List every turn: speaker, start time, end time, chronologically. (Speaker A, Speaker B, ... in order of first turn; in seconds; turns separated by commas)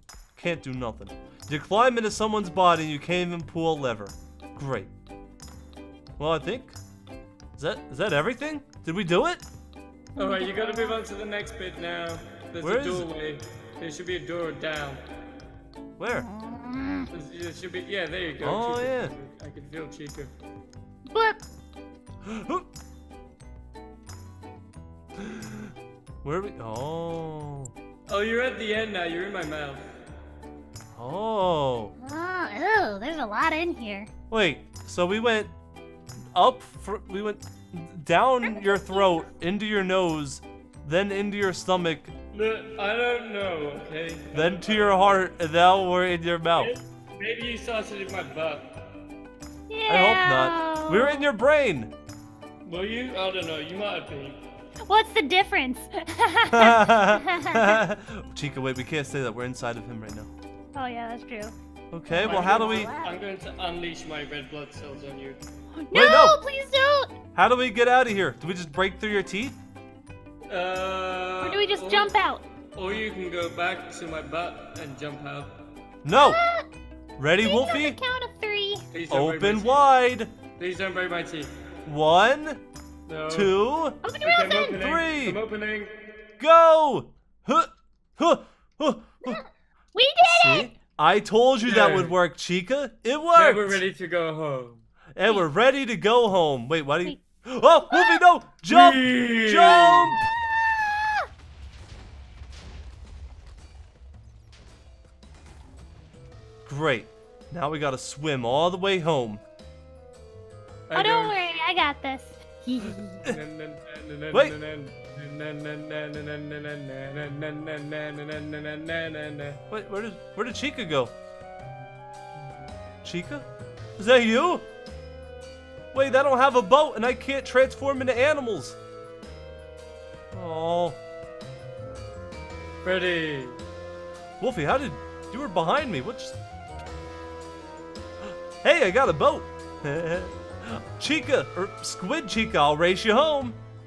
Speaker A: 0.4-4.9, Speaker A: 6.2-6.8, Speaker A: 7.6-9.4, Speaker B: 10.2-11.0, Speaker C: 10.2-15.0, Speaker A: 12.6-13.1, Speaker A: 16.0-16.3, Speaker B: 16.1-17.1, Speaker C: 17.1-20.4, Speaker A: 18.4-19.1, Speaker B: 21.1-21.4, Speaker A: 22.2-22.7, Speaker A: 25.2-25.7, Speaker A: 26.2-27.7, Speaker C: 28.1-30.0, Speaker A: 30.9-31.9, Speaker B: 32.0-34.1, Speaker A: 34.3-35.5, Speaker A: 36.3-42.1, Speaker B: 38.4-39.2, Speaker C: 42.3-45.2, Speaker A: 44.3-46.7, Speaker C: 46.6-48.7, Speaker B: 49.7-51.3, Speaker A: 49.9-51.9, Speaker C: 52.6-54.4, Speaker B: 54.9-57.8, Speaker A: 56.5-60.3, Speaker B: 60.7-61.5, Speaker A: 61.9-62.9, Speaker B: 62.1-63.2, Speaker C: 62.2-65.4, Speaker B: 65.8-67.2, Speaker A: 65.9-66.4, Speaker A: 67.3-69.6, Speaker C: 70.5-72.2, Speaker B: 71.4-72.5, Speaker C: 72.8-75.6, Speaker A: 76.0-76.4, Speaker B: 76.1-76.7, Speaker A: 77.2-78.0, Speaker B: 77.4-78.9, Speaker C: 78.9-79.9, Speaker A: 79.1-80.3, Speaker C: 80.6-81.5, Speaker A: 81.8-82.6, Speaker C: 83.1-83.6, Speaker A: 83.3-84.0, Speaker B: 84.0-84.8, Speaker C: 84.2-85.9, Speaker A: 84.8-85.4, Speaker A: 86.4-89.4, Speaker B: 89.2-90.8, Speaker A: 90.2-93.8, Speaker C: 91.6-92.1, Speaker C: 93.3-94.8, Speaker A: 95.2-100.2, Speaker B: 97.9-98.2, Speaker C: 98.7-100.2, Speaker A: 106.7-109.4, Speaker C: 110.9-111.5, Speaker B: 110.9-113.3, Speaker C: 113.2-119.6, Speaker A: 119.7-121.1, Speaker A: 123.0-123.5, Speaker A: 124.0-124.7, Speaker A: 125.9-128.8, Speaker A: 130.3-131.0, Speaker C: 132.8-133.6, Speaker A: 134.4-136.4, Speaker A: 138.6-143.6